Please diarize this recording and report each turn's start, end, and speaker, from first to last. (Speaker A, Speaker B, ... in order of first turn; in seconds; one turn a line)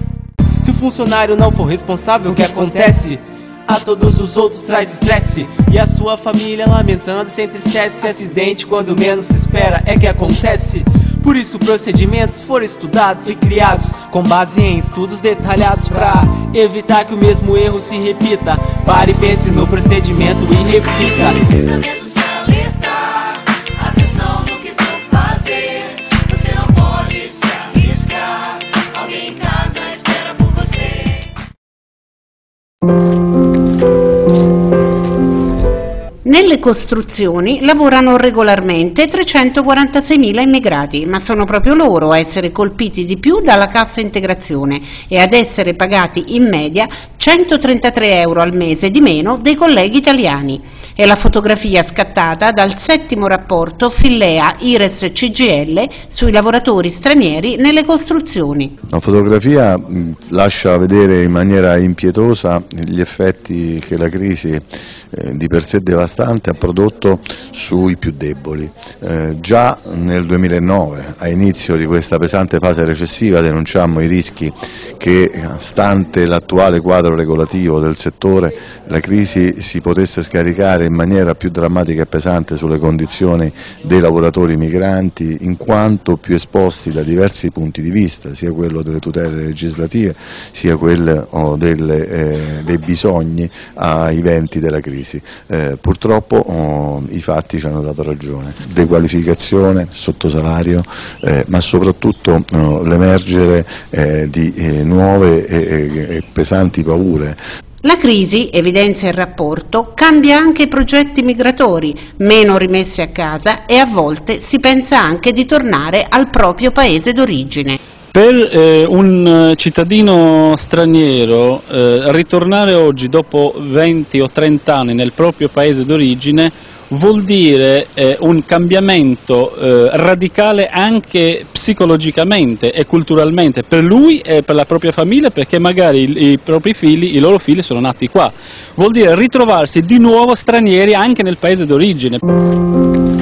Speaker A: 0.6-21.7
Speaker B: 21.7-31.0
Speaker C: 36.2-58.7
Speaker D: 58.9-107.4
Speaker C: 107.8-117.8
Speaker E: 118.1-142.2